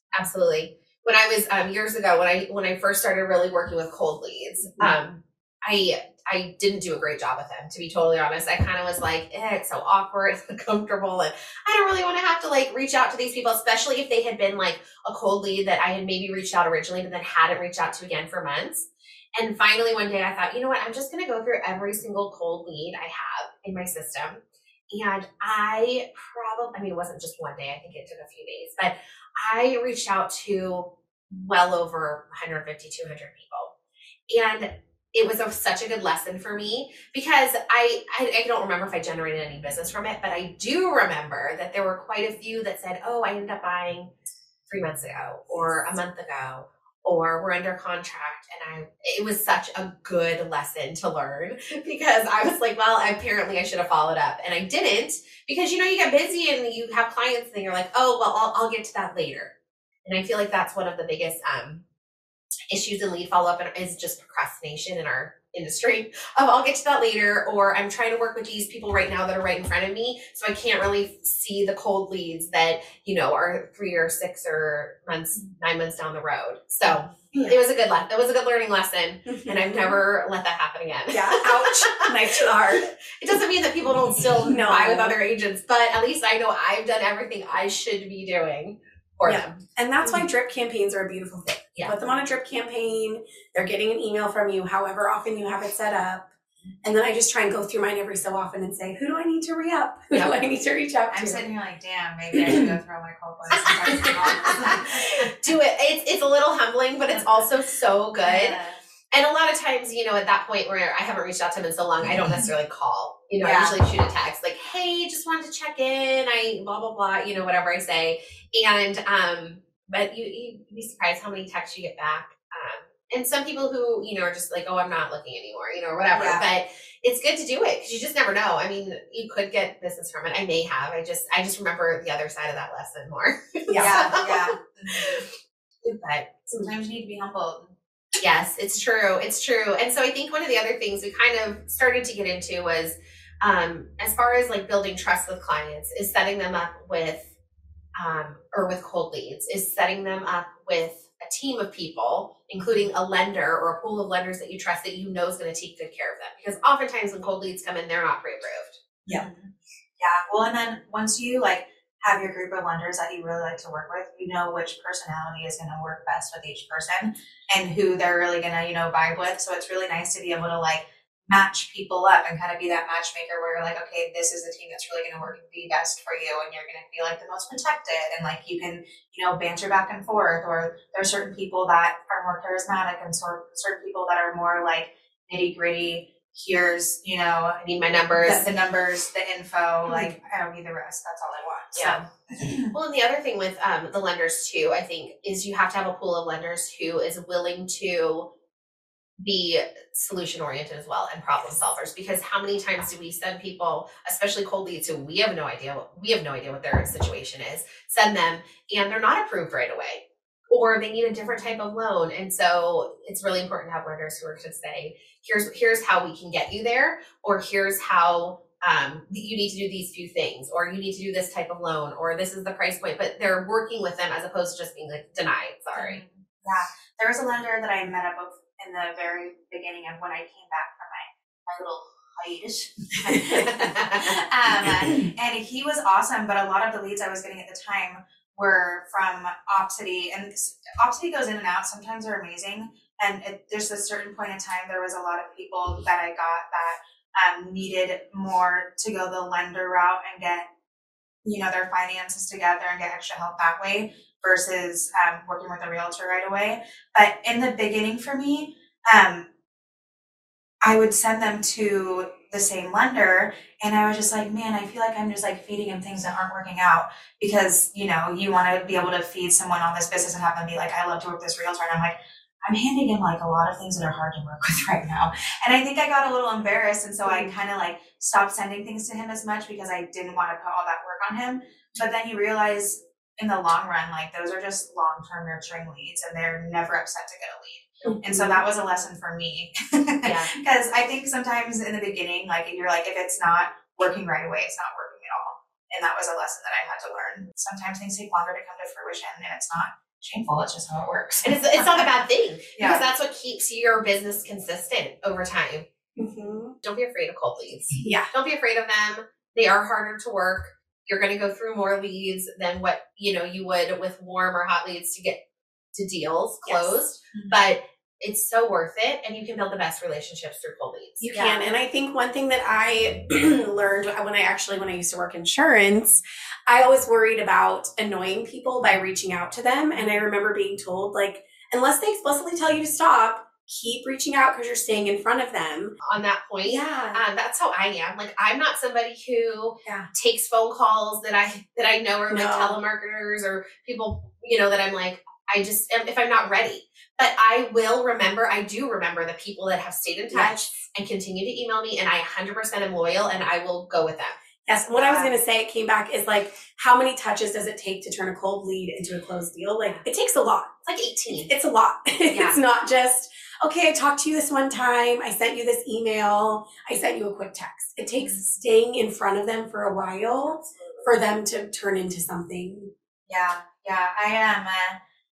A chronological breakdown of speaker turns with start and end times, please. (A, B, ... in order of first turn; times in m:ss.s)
0:00.1-0:33.7 A
0:34.3-0:44.1 A
0:44.7-0:59.5 A
1:00.0-1:01.8 A
1:02.7-1:22.2 A
1:16.8-1:17.3 B
1:19.2-1:20.0 C
1:21.1-1:22.9 C
1:23.2-1:30.2 A
1:24.4-1:25.2 C
1:29.2-1:36.3 C
1:36.8-1:41.5 C
1:40.1-1:40.4 A
1:41.1-1:45.1 B
1:42.4-1:42.7 C
1:43.5-1:48.6 A
1:44.3-1:44.7 C
1:47.1-1:47.5 B
1:48.2-1:48.8 B
1:49.1-2:15.2 A
1:52.0-1:52.5 B
1:53.4-1:53.8 B
2:06.1-2:06.5 B
2:13.7-2:14.1 C
2:13.8-2:15.3 B
2:15.8-2:16.7 A
2:16.6-2:17.7 B
2:18.2-2:27.2 A
2:28.0-2:39.2 A
2:32.6-2:32.9 B
2:39.0-3:12.7 B
3:07.6-3:08.5 A
3:09.9-3:10.1 A
3:11.8-3:12.0 A
3:12.7-3:18.3 A
3:19.2-3:46.0 A
3:45.8-4:10.5 B
3:53.4-3:54.1 A
4:11.2-4:19.2 B
4:20.6-5:02.0 B
4:48.1-4:48.4 C
4:50.0-4:50.3 A
5:01.2-5:05.6 A
5:02.6-5:02.8 B
5:06.0-5:06.5 C
5:06.6-5:15.2 A
5:07.8-5:08.1 C
5:15.8-5:21.4 A
5:16.4-5:16.8 C
5:17.1-5:17.5 B
5:21.0-5:35.8 C
5:35.8-5:54.1 A
5:36.4-5:37.0 C
5:42.1-5:42.6 C
5:50.1-5:50.4 C
5:54.5-6:00.5 C
5:54.7-5:55.1 A
6:00.6-6:01.3 A
6:01.1-6:12.7 C
6:02.1-6:02.4 A
6:08.0-6:08.4 B
6:10.2-6:10.9 A
6:13.1-6:14.8 B